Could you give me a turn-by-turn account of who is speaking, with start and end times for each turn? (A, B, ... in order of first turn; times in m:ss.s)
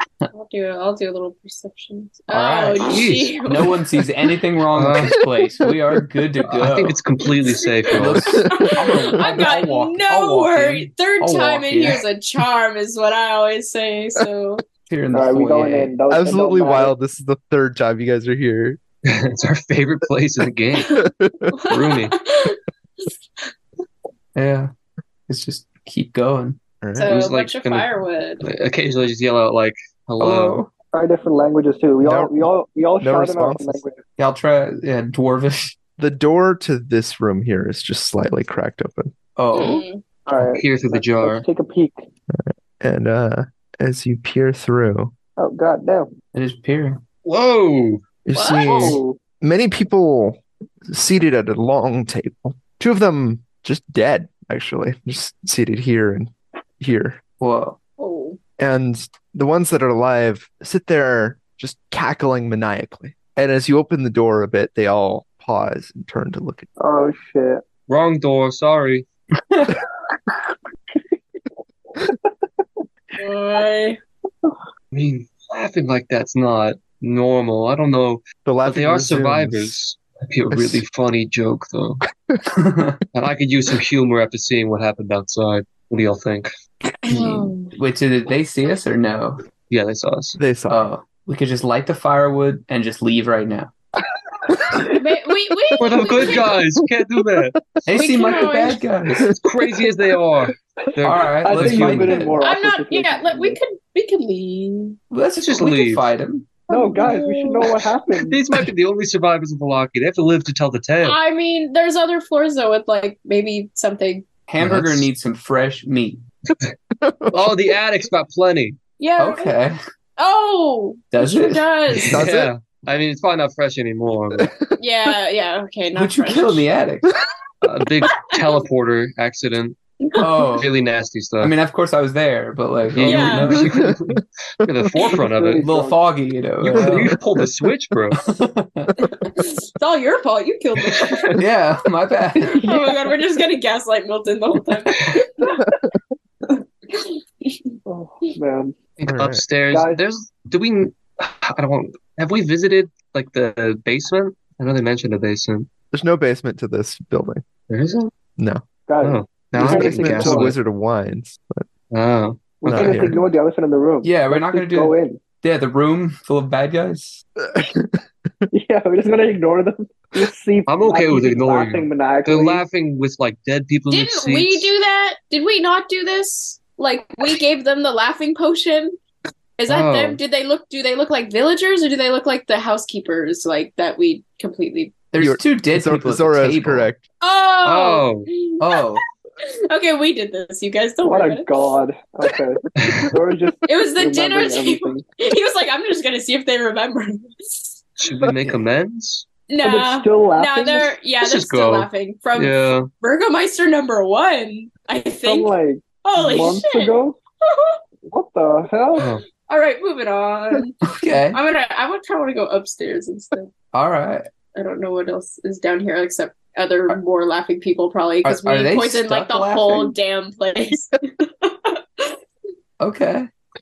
0:00.3-0:03.8 A
0:02.3-0:07.0 B
0:02.8-0:03.5 C
0:04.7-0:05.2 C
0:06.4-0:08.3 C
0:07.9-0:12.0 B
0:08.3-0:09.5 D
0:08.4-0:14.6 A
0:14.9-0:16.0 B
0:15.1-0:16.9 E
0:16.1-0:18.8 D
0:19.1-0:21.0 C
0:20.8-0:23.5 A
0:20.9-0:21.5 D
0:21.7-0:22.1 C
0:24.3-0:24.7 B
0:25.3-0:26.6 B
0:26.8-0:27.1 D
0:27.0-0:28.4 A
0:27.1-0:30.6 C
0:30.2-0:30.7 B
0:30.9-0:34.0 E
0:32.0-0:32.5 D
0:33.0-0:33.8 D
0:34.2-0:35.8 B
0:36.0-0:39.1 D
0:39.4-0:39.8 B
0:39.5-0:40.0 A
0:40.2-0:42.0 E
0:40.4-0:41.4 C
0:42.3-0:45.1 D
0:45.4-0:46.1 E
0:46.3-0:47.0 B
0:47.2-0:48.0 C
0:48.2-0:57.2 D
0:48.3-0:49.0 A
0:48.6-0:49.2 E
0:57.4-0:57.8 B
0:58.0-0:58.4 A
0:58.6-1:06.7 D
1:06.8-1:07.6 E
1:07.9-1:09.0 C
1:09.4-1:09.7 B
1:13.2-1:14.0 A
1:14.9-1:22.0 C
1:18.4-1:19.8 D
1:22.5-1:23.0 B
1:23.1-1:26.5 C
1:27.0-1:27.7 A
1:27.1-1:29.4 B
1:29.7-1:30.4 C
1:30.4-1:30.9 D
1:30.7-1:33.7 B
1:34.9-1:36.5 A
1:35.8-1:37.6 C
1:37.8-1:39.3 B
1:37.9-1:38.8 A
1:39.3-1:42.2 C
1:41.0-1:42.4 B
1:41.4-1:43.6 E
1:42.4-1:45.0 A
1:45.1-1:46.6 B
1:45.4-1:46.1 C
1:46.7-1:47.7 A
1:46.7-1:48.4 E
1:48.3-1:51.2 C
1:51.0-1:54.2 A
1:54.5-1:56.2 B
1:54.6-1:55.1 C
1:57.0-1:57.5 D
1:57.3-1:58.8 C
1:59.0-1:59.6 A
1:59.2-1:59.8 B
2:00.2-2:02.2 A
2:01.1-2:01.7 B
2:02.1-2:02.5 D
2:02.1-2:04.5 C
2:04.4-2:04.8 D
2:04.8-2:06.7 A
2:05.9-2:07.1 B
2:07.6-2:09.8 C
2:10.0-2:10.6 A
2:10.2-2:10.7 B
2:10.6-2:11.5 C
2:11.4-2:13.8 B
2:12.9-2:15.6 C
2:13.0-2:13.7 A
2:13.8-2:14.2 D
2:15.1-2:16.0 E
2:15.6-2:17.2 B
2:16.6-2:18.2 C
2:18.2-2:18.9 B
2:19.0-2:21.3 A
2:21.4-2:22.7 B
2:22.6-2:22.9 E
2:22.6-2:25.6 A
2:26.5-2:27.8 A
2:27.8-2:28.8 E
2:29.0-2:35.7 C
2:29.1-2:29.4 D
2:29.7-2:30.0 E
2:35.9-2:37.4 D
2:37.7-2:38.1 C
2:38.4-2:38.6 D
2:38.9-2:40.6 E
2:39.0-2:40.6 C
2:39.5-2:41.7 D
2:41.9-2:43.1 C
2:42.6-2:45.2 E
2:42.7-2:43.2 D
2:44.0-2:47.2 B
2:47.4-2:48.4 D
2:48.5-2:52.6 E
2:50.7-2:54.7 C
2:53.9-2:59.0 A
2:59.6-3:04.9 A
2:59.7-3:00.2 C
3:05.1-3:06.9 B
3:05.2-3:07.0 D
3:07.2-3:11.6 A
3:07.6-3:08.3 C
3:08.6-3:09.0 B
3:11.0-3:15.0 E
3:13.6-3:17.8 A
3:18.0-3:19.2 C
3:19.5-3:27.8 A
3:19.6-3:20.9 E
3:21.2-3:22.9 C
3:25.2-3:27.2 E
3:28.0-3:29.1 E
3:29.0-3:29.2 C
3:29.4-3:30.8 A
3:30.8-3:31.4 B
3:31.3-3:33.5 A
3:33.7-3:34.2 B
3:34.5-3:42.2 A
3:38.2-3:39.9 B
3:42.8-3:43.3 B